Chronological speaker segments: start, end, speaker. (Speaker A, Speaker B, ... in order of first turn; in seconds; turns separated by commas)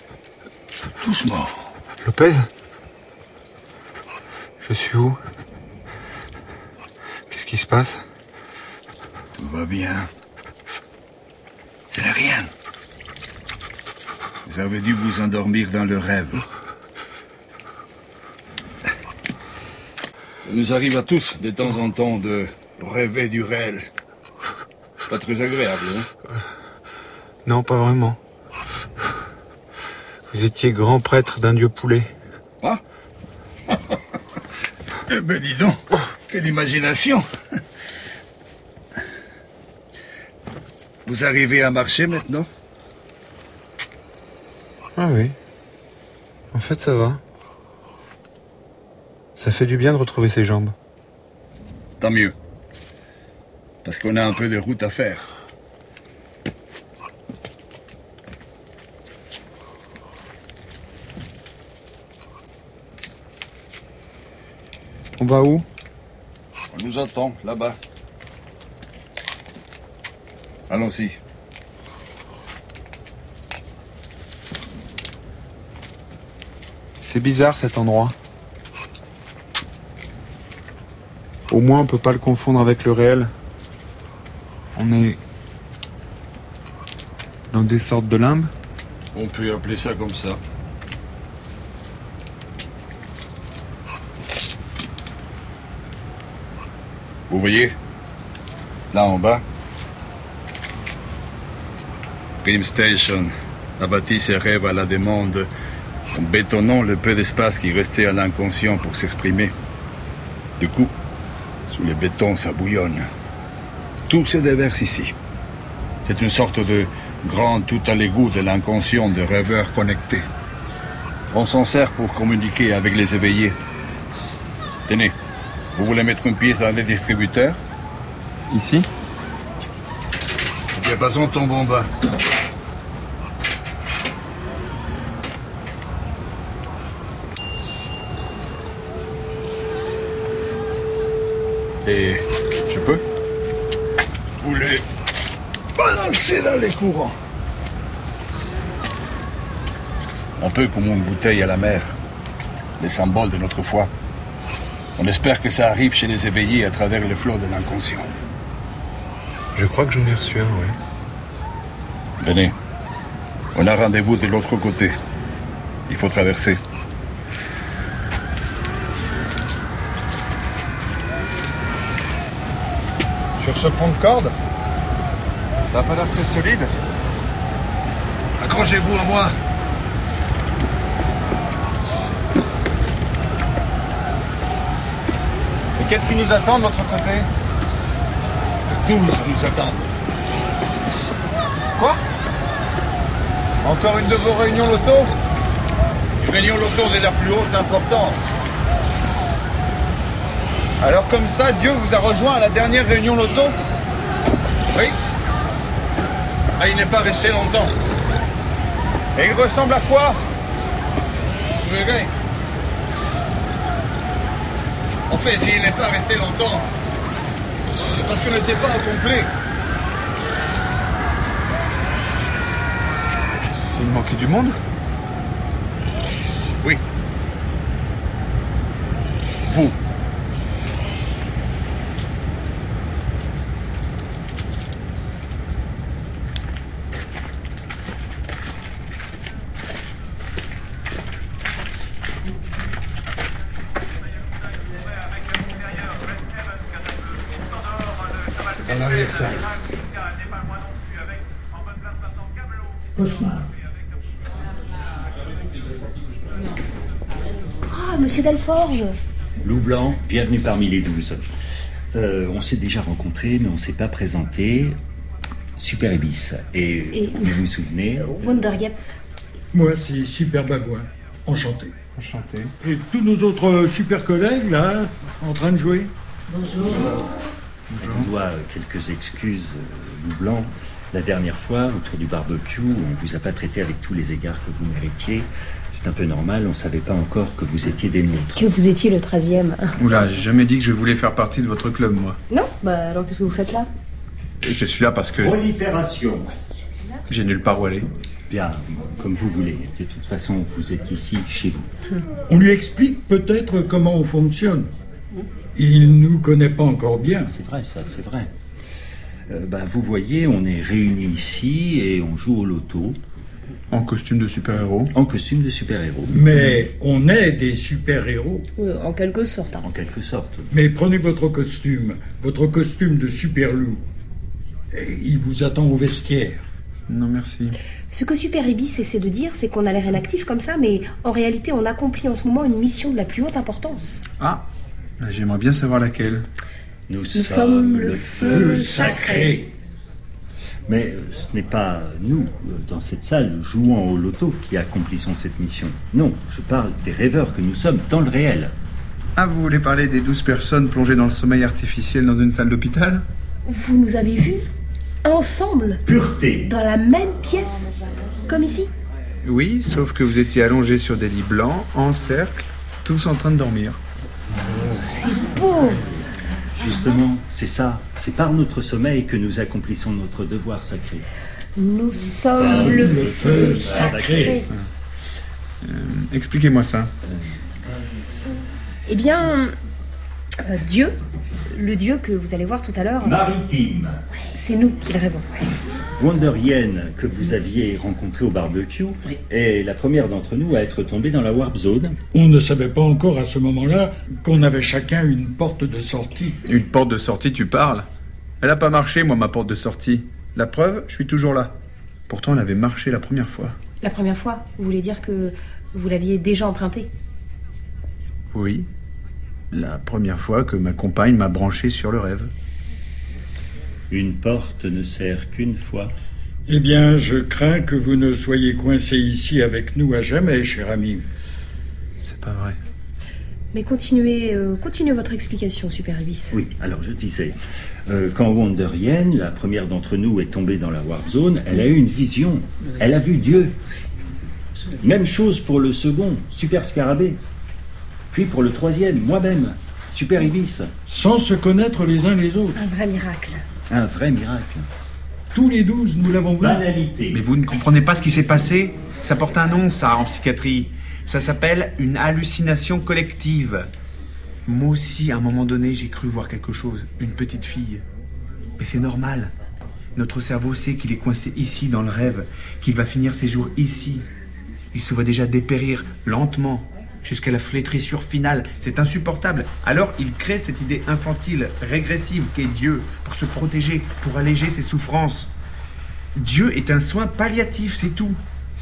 Speaker A: 1.0-1.6, Speaker B: 2.0-2.5, Speaker B: 4.6-5.2, Speaker B: 7.3-8.0, Speaker A: 9.3-10.1, Speaker A: 11.9-12.5, Speaker A: 14.4-16.5, Speaker A: 20.4-23.9, Speaker A: 25.1-26.1, Speaker B: 27.5-28.2, Speaker B: 30.3-32.1, Speaker A: 35.1-37.2, Speaker A: 41.1-42.5, Speaker B: 45.0-45.4, Speaker B: 46.5-47.2, Speaker B: 49.4-50.8, Speaker A: 52.0-52.3, Speaker A: 53.9-55.3, Speaker B: 65.2-65.7, Speaker A: 66.7-67.8, Speaker A: 70.7-71.2, Speaker B: 77.0-78.2, Speaker B: 81.5-83.3, Speaker B: 84.8-85.2, Speaker B: 87.5-88.5, Speaker A: 89.2-90.4, Speaker A: 97.3-97.8, Speaker A: 98.9-99.4, Speaker A: 102.4-105.5, Speaker A: 106.1-109.5, Speaker A: 110.6-110.9, Speaker A: 111.7-113.1, Speaker A: 114.1-115.1, Speaker A: 116.1-120.3, Speaker A: 121.3-123.6, Speaker A: 124.9-125.1, Speaker A: 125.8-127.6, Speaker B: 128.5-128.9, Speaker A: 130.7-131.9, Speaker A: 141.8-143.0, Speaker A: 144.4-144.8, Speaker A: 145.8-147.2, Speaker A: 150.4-152.0, Speaker A: 152.8-153.9, Speaker A: 155.0-158.2, Speaker B: 159.6-160.8, Speaker A: 162.2-162.5, Speaker A: 163.6-165.0, Speaker A: 165.9-166.6, Speaker B: 173.4-174.3, Speaker B: 175.7-176.7, Speaker A: 178.4-179.3, Speaker B: 185.8-187.3, Speaker A: 188.7-189.8, Speaker B: 193.6-195.1, Speaker A: 196.2-198.3, Speaker B: 200.8-203.6, Speaker A: 206.6-207.7, Speaker B: 209.2-210.2, Speaker A: 211.6-212.1, Speaker A: 215.1-216.7, Speaker A: 217.8-219.3, Speaker B: 223.8-224.6, Speaker A: 229.4-229.8, Speaker A: 248.6-249.4, Speaker C: 253.0-253.5, Speaker D: 257.7-259.0, Speaker C: 259.4-261.3, Speaker C: 261.9-264.8, Speaker C: 265.6-268.3, Speaker D: 266.9-267.4, Speaker D: 268.1-268.8, Speaker E: 269.5-271.7, Speaker B: 272.0-272.5, Speaker E: 272.6-275.9, Speaker B: 277.7-278.1, Speaker C: 277.8-288.5, Speaker D: 288.4-289.8, Speaker B: 289.8-292.2, Speaker D: 292.3-293.7, Speaker B: 294.4-295.3, Speaker C: 295.2-296.3, Speaker B: 297.1-297.9, Speaker C: 298.3-301.7, Speaker E: 302.3-304.7, Speaker E: 305.6-307.3, Speaker C: 307.2-308.3, Speaker C: 309.3-313.0, Speaker B: 313.7-314.9, Speaker C: 314.9-316.3, Speaker E: 316.1-318.5, Speaker D: 318.6-319.6, Speaker C: 319.6-320.5, Speaker E: 320.5-323.8, Speaker E: 324.7-326.4, Speaker B: 326.9-327.6, Speaker D: 327.9-334.0, Speaker B: 334.2-334.4, Speaker B: 335.0-336.3, Speaker C: 336.9-339.4, Speaker D: 337.1-339.4, Speaker E: 338.2-339.5, Speaker C: 340.7-348.5, Speaker B: 349.2-353.1, Speaker D: 353.5-354.4, Speaker D: 355.0-355.8, Speaker C: 355.9-356.5, Speaker D: 356.5-357.7, Speaker D: 358.3-358.7, Speaker B: 359.2-363.8, Speaker D: 364.8-365.9, Speaker C: 366.5-371.1, Speaker D: 371.6-374.4, Speaker C: 372.4-374.5, Speaker E: 372.4-374.4, Speaker B: 375.6-376.9, Speaker C: 377.1-377.4, Speaker D: 378.9-379.6, Speaker D: 380.4-381.0, Speaker D: 381.5-383.2, Speaker C: 383.0-384.0, Speaker D: 384.3-385.5, Speaker C: 386.0-392.0, Speaker E: 392.1-396.4, Speaker B: 396.4-397.9, Speaker B: 398.4-401.6, Speaker B: 402.1-403.6, Speaker D: 403.8-406.9, Speaker B: 408.3-408.7, Speaker B: 409.5-412.3, Speaker C: 413.9-415.9, Speaker E: 416.5-421.0, Speaker B: 422.1-422.6, Speaker D: 423.5-426.4, Speaker C: 426.3-427.4, Speaker C: 427.9-433.6, Speaker C: 434.8-437.2, Speaker C: 438.1-440.7, Speaker E: 440.9-442.6, Speaker D: 442.6-443.4, Speaker C: 443.7-444.7, Speaker E: 445.3-446.6, Speaker C: 446.4-447.2, Speaker B: 447.1-453.7, Speaker B: 454.5-457.8, Speaker B: 458.6-459.3, Speaker B: 460.0-464.1, Speaker B: 464.7-475.3, Speaker B: 476.1-478.2